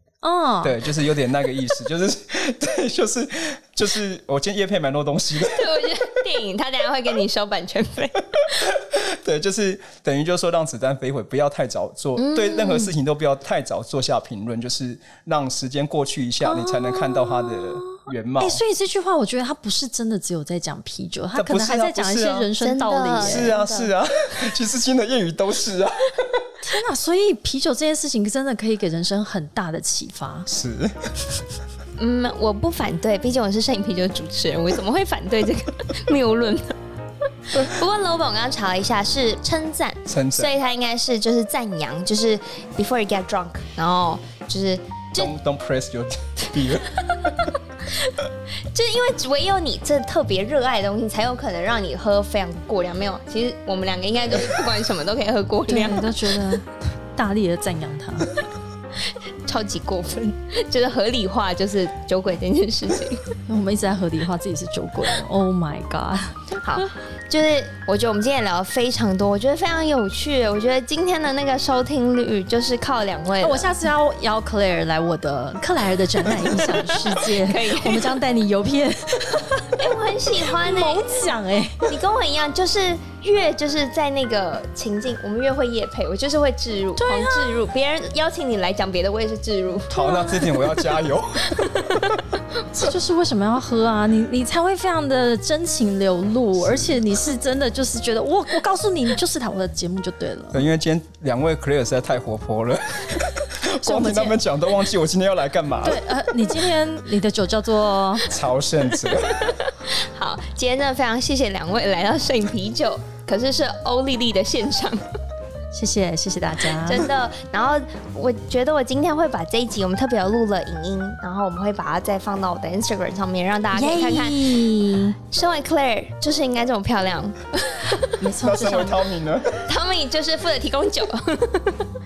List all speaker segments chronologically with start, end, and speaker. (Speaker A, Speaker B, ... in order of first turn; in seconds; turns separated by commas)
Speaker A: 0.2-0.8, Speaker B: 0.6-5.9, Speaker C: 5.5-8.7, Speaker B: 8.7-18.6, Speaker C: 12.2-12.9, Speaker A: 16.4-23.6, Speaker B: 21.3-22.5, Speaker C: 22.6-23.9, Speaker B: 23.2-26.4, Speaker A: 26.6-30.5, Speaker B: 30.5-30.9, Speaker C: 32.0-36.8, Speaker C: 37.5-45.3, Speaker B: 40.0-40.5, Speaker B: 45.1-46.9, Speaker C: 47.1-48.1, Speaker C: 48.7-56.5, Speaker A: 55.7-58.3, Speaker C: 59.5-63.2, Speaker A: 63.5-66.5, Speaker C: 66.6-73.6, Speaker A: 73.4-79.8, Speaker C: 76.4-78.1, Speaker C: 79.8-81.2, Speaker A: 80.5-81.8, Speaker C: 81.8-89.9, Speaker A: 87.0-87.6, Speaker A: 89.9-90.5, Speaker B: 89.9-92.0, Speaker A: 92.7-100.6, Speaker B: 96.6-96.9, Speaker B: 100.5-106.0, Speaker A: 103.8-104.4, Speaker A: 105.8-108.2, Speaker B: 108.3-109.5, Speaker C: 109.3-115.0, Speaker A: 115.7-117.0, Speaker C: 116.8-124.5, Speaker A: 123.7-125.2, Speaker C: 125.3-128.1, Speaker A: 128.2-129.0, Speaker B: 128.4-129.6, Speaker C: 129.7-131.8